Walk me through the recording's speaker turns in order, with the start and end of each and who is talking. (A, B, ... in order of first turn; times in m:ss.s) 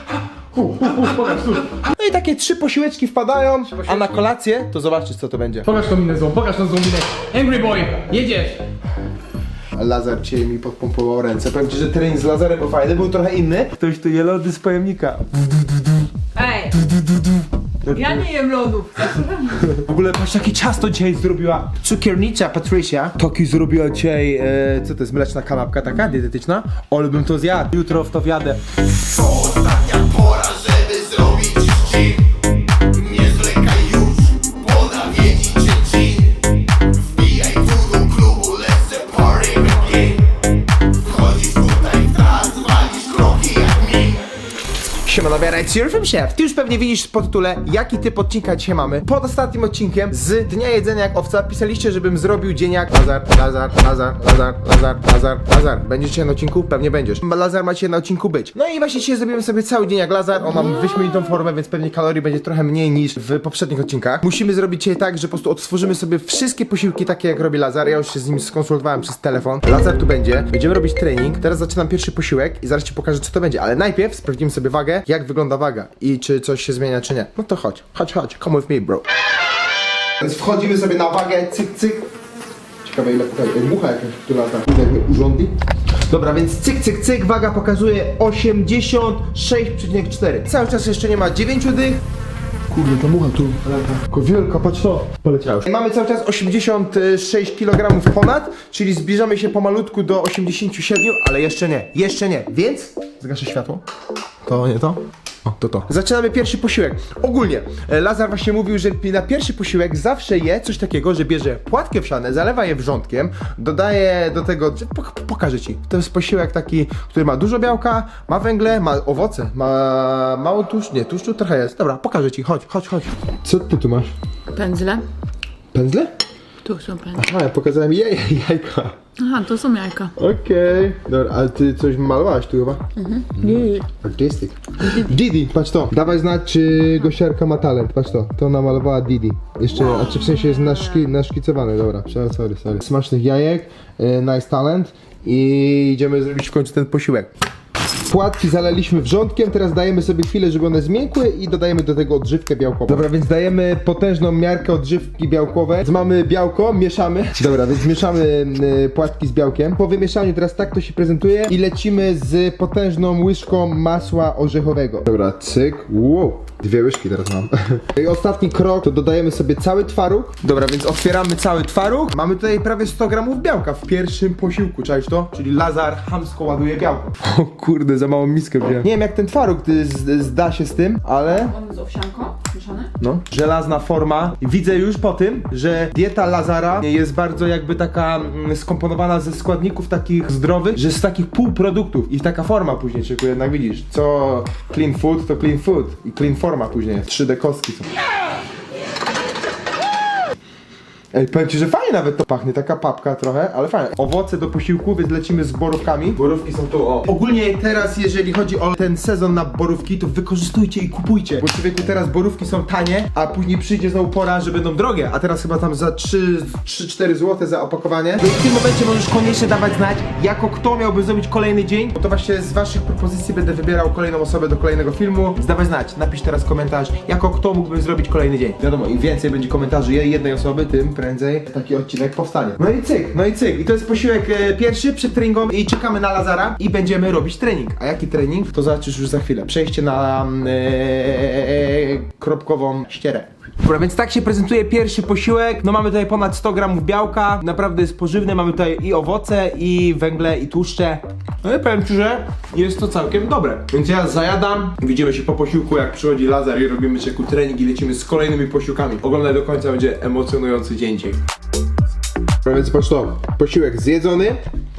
0:00.5-0:01.7 A
0:01.8-0:05.7 B
0:03.6-0:04.3 A
0:05.6-0:08.6 A
0:09.8-0:15.4 B
0:16.3-0:16.8 C
0:17.8-0:18.3 B
0:17.8-0:19.7 C
0:19.5-0:28.6 B
0:29.1-0:32.2 B
0:32.9-0:36.2 B
0:37.2-0:40.2 B
0:41.1-0:44.2 B
0:45.0-1:19.0 B
1:20.2-1:22.0 B
1:22.8-1:25.5 B
1:26.1-1:32.0 B
1:32.7-1:43.8 B
1:44.4-2:04.1 B
2:04.5-2:05.0 C
2:05.7-2:06.1 B
2:06.6-2:07.2 C
2:07.1-2:08.9 B
2:09.2-2:10.1 C
2:10.2-2:12.8 B
2:13.0-2:13.9 C
2:13.4-2:27.3 B
2:19.7-2:20.8 C
2:28.0-3:01.5 B
3:01.2-3:02.9 C
3:03.0-3:17.8 B
3:21.1-4:21.2 B
4:22.4-4:24.4 B